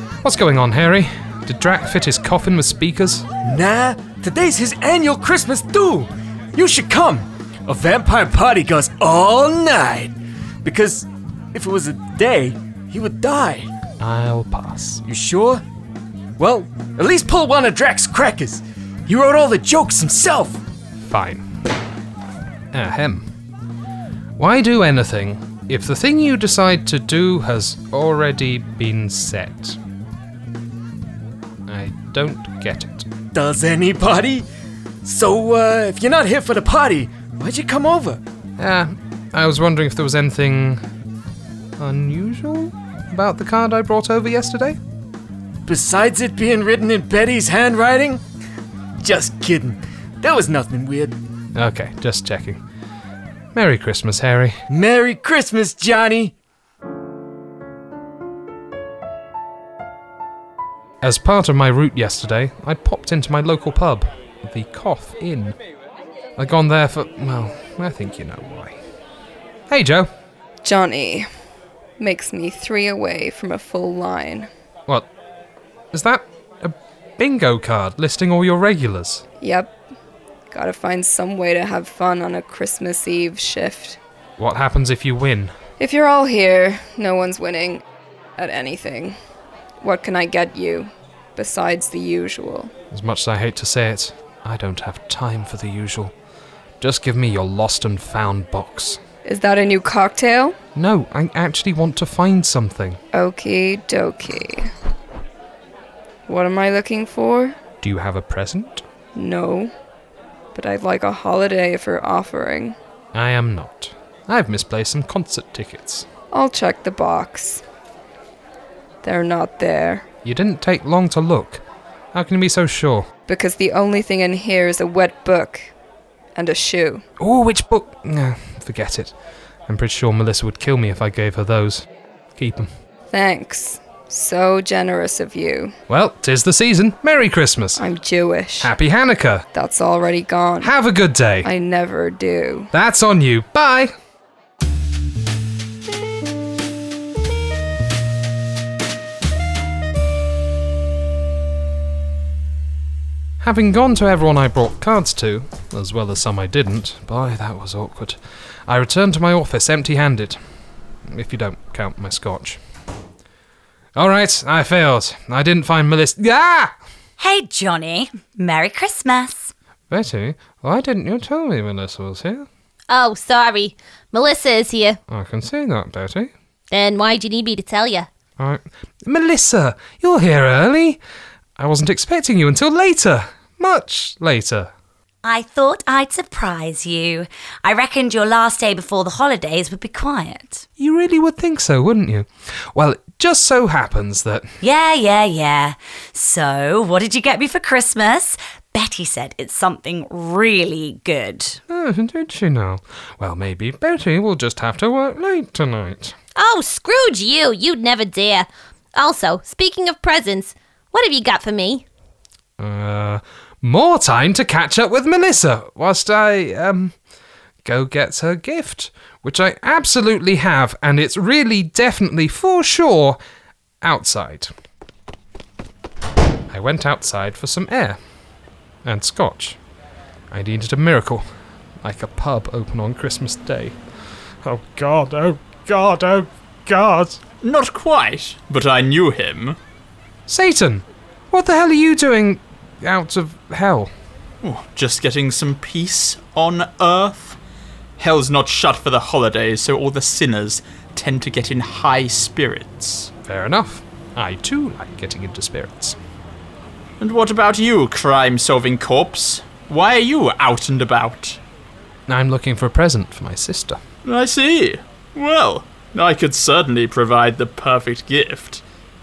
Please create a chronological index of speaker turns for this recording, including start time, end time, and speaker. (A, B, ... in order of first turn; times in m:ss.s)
0:00.2-0:03.2 A
0:03.4-0:13.7 B
0:14.0-0:15.0 A
0:15.0-0:15.6 B
0:16.4-0:20.6 B
0:21.0-0:21.4 A
0:22.7-0:23.3 A
0:24.4-0:29.8 A
0:31.7-0:33.1 A
0:33.3-0:34.4 B
0:35.0-0:38.2 B
0:38.6-0:40.8 A
0:41.8-0:44.8 A
0:45.6-0:48.2 B
0:49.0-0:51.2 B
0:51.5-0:52.6 A
0:53.5-0:54.6 A
0:54.7-0:56.3 B
1:01.0-1:05.6 A
1:06.4-1:08.8 A
1:09.7-1:10.1 A
1:10.6-1:11.2 C
1:12.0-1:14.5 C
1:15.9-1:19.2 A
1:19.4-1:19.7 C
1:20.5-1:24.0 C
1:24.4-1:25.5 A
1:25.8-1:27.8 C
1:28.4-1:29.2 C
1:29.8-1:32.7 C
1:32.9-1:36.1 A
1:36.8-1:39.0 A
1:39.2-1:40.6 C
1:40.8-1:43.0 A
1:43.1-1:44.7 C
1:46.3-1:47.6 C
1:47.8-1:48.8 A
1:49.1-1:49.7 C
1:50.5-1:52.8 C
1:53.1-1:56.0 A
1:56.3-1:57.6 C
1:59.0-2:00.0 C
2:00.2-2:01.6 A
2:02.1-2:03.1 A
2:03.3-2:05.7 C
2:06.3-2:07.0 C
2:07.2-2:09.1 A
2:09.7-2:12.7 A
2:13.1-2:15.7 C
2:15.9-2:17.8 A
2:17.7-2:18.7 C
2:18.6-2:19.4 A
2:19.5-2:20.8 C
2:20.6-2:21.5 A
2:21.4-2:22.7 C
2:22.7-2:23.9 A
2:33.4-2:40.4 A
2:41.1-2:42.6 A
2:44.0-2:46.7 A
2:47.2-2:49.5 D
2:49.9-2:52.5 A
2:52.9-2:55.0 E
2:55.1-2:56.3 A
2:56.7-2:58.1 E
2:58.4-3:01.0 A
3:01.6-3:04.7 A
3:05.2-3:10.6 D
3:10.8-3:14.5 A
3:14.6-3:21.6 D
3:21.7-3:26.1 A
3:26.4-3:31.8 E
3:32.6-3:36.9 A
3:37.6-3:43.2 A
3:43.8-3:44.5 A
3:46.5-3:48.0 A
3:48.8-3:49.6 A
3:50.3-3:51.2 A
3:51.8-3:53.8 A
3:54.4-3:57.2 A
3:57.4-3:59.6 F
4:00.3-4:03.9 A
4:04.4-4:07.4 F
4:08.0-4:13.1 F
4:13.2-4:16.0 A
4:17.0-4:21.4 F
4:22.1-4:23.8 A
4:24.0-4:28.6 F